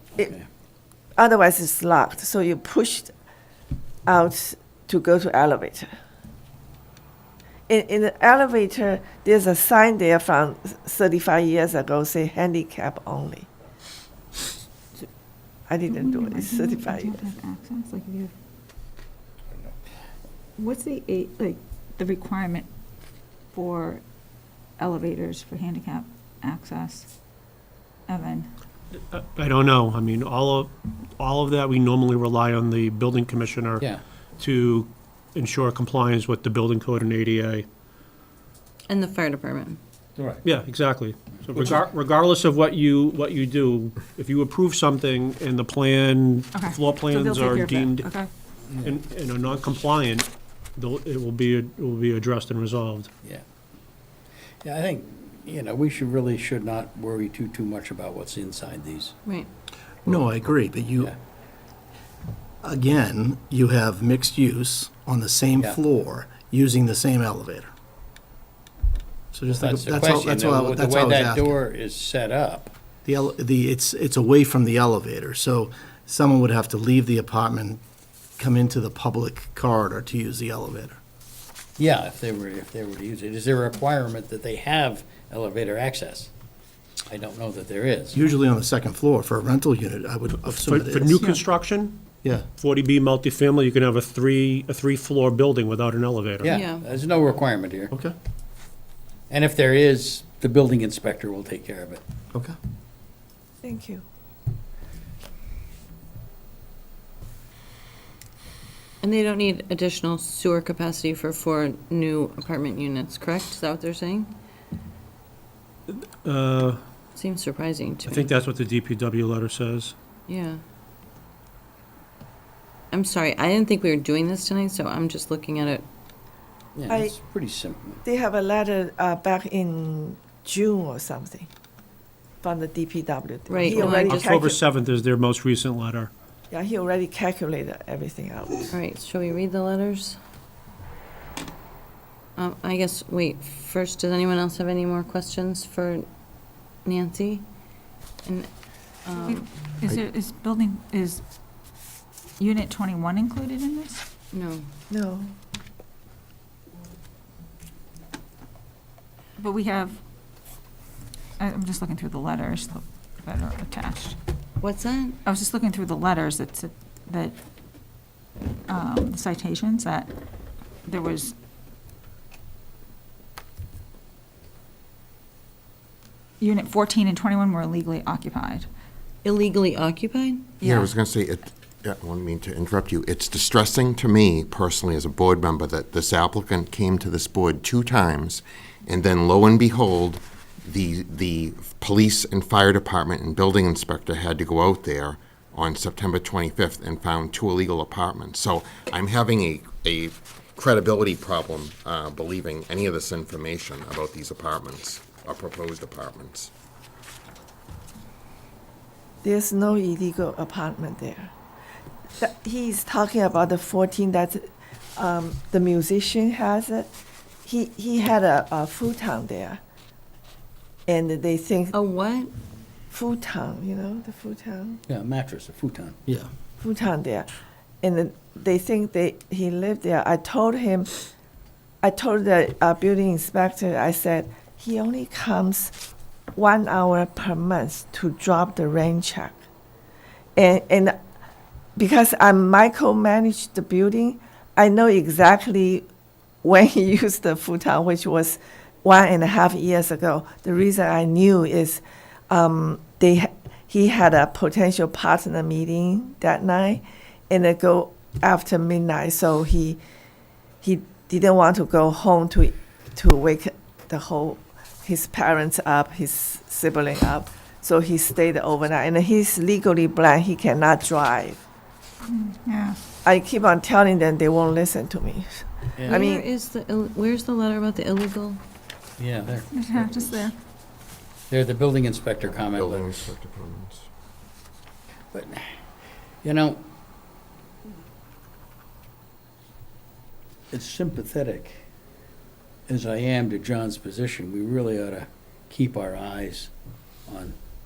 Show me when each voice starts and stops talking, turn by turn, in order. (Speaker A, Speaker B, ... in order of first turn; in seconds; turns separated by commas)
Speaker A: 0.2-0.4, Speaker B: 1.2-3.1, Speaker B: 4.0-5.9, Speaker B: 7.7-13.5, Speaker B: 15.7-17.3, Speaker C: 15.9-18.3, Speaker C: 20.6-22.7, Speaker C: 23.5-24.0, Speaker C: 24.8-27.1, Speaker C: 28.1-28.5, Speaker D: 29.1-37.7, Speaker E: 38.9-39.8, Speaker D: 40.4-48.1, Speaker C: 46.5-48.3, Speaker A: 48.7-49.0, Speaker D: 48.8-53.1, Speaker A: 54.6-59.1, Speaker F: 60.0-61.1, Speaker F: 62.6-67.7, Speaker F: 69.3-71.6, Speaker A: 69.5-72.7, Speaker F: 73.0-77.8, Speaker F: 78.4-81.0, Speaker A: 81.8-86.3, Speaker A: 87.1-88.2, Speaker F: 88.1-91.3, Speaker D: 90.5-92.0, Speaker C: 91.2-91.5, Speaker D: 92.6-96.6, Speaker A: 96.4-97.9, Speaker E: 96.5-96.8, Speaker A: 99.3-102.0, Speaker B: 103.6-104.0, Speaker E: 109.0-114.3, Speaker D: 115.9-116.8, Speaker E: 117.2-118.3, Speaker D: 118.1-120.0, Speaker E: 120.3-120.6, Speaker E: 122.9-125.8, Speaker A: 126.8-128.0, Speaker B: 126.9-127.1, Speaker B: 128.0-131.5, Speaker B: 132.4-134.6, Speaker E: 133.5-134.1, Speaker D: 133.8-136.1, Speaker B: 136.5-138.7, Speaker E: 138.7-140.2, Speaker E: 142.4-146.1, Speaker E: 146.8-147.4, Speaker E: 149.0-149.4, Speaker C: 149.2-151.2, Speaker C: 152.4-154.1, Speaker E: 154.3-154.6, Speaker B: 154.9-155.3, Speaker C: 159.4-160.0, Speaker C: 161.4-164.2, Speaker E: 164.6-165.2, Speaker C: 165.2-167.3, Speaker C: 168.7-170.1, Speaker C: 170.8-171.3, Speaker C: 176.4-178.7, Speaker E: 179.2-180.5, Speaker C: 180.6-180.9, Speaker G: 180.6-206.5, Speaker B: 209.2-211.3, Speaker B: 212.2-216.9, Speaker B: 217.4-219.6, Speaker B: 220.9-221.7, Speaker E: 221.7-222.3, Speaker B: 222.9-224.8, Speaker A: 224.9-226.0, Speaker B: 226.6-227.3, Speaker B: 227.8-230.9, Speaker B: 231.8-235.7, Speaker B: 236.3-239.4, Speaker B: 240.3-241.0, Speaker B: 241.8-245.8, Speaker B: 246.4-259.8, Speaker B: 260.6-271.4, Speaker C: 272.1-272.8, Speaker B: 273.0-276.2, Speaker A: 275.8-276.1, Speaker E: 275.9-278.4, Speaker A: 279.0-280.3, Speaker C: 279.5-280.4, Speaker A: 281.3-283.1, Speaker G: 282.4-283.9, Speaker A: 285.1-285.6, Speaker A: 286.2-286.6, Speaker A: 290.5-291.6, Speaker A: 292.7-296.5, Speaker A: 297.1-297.4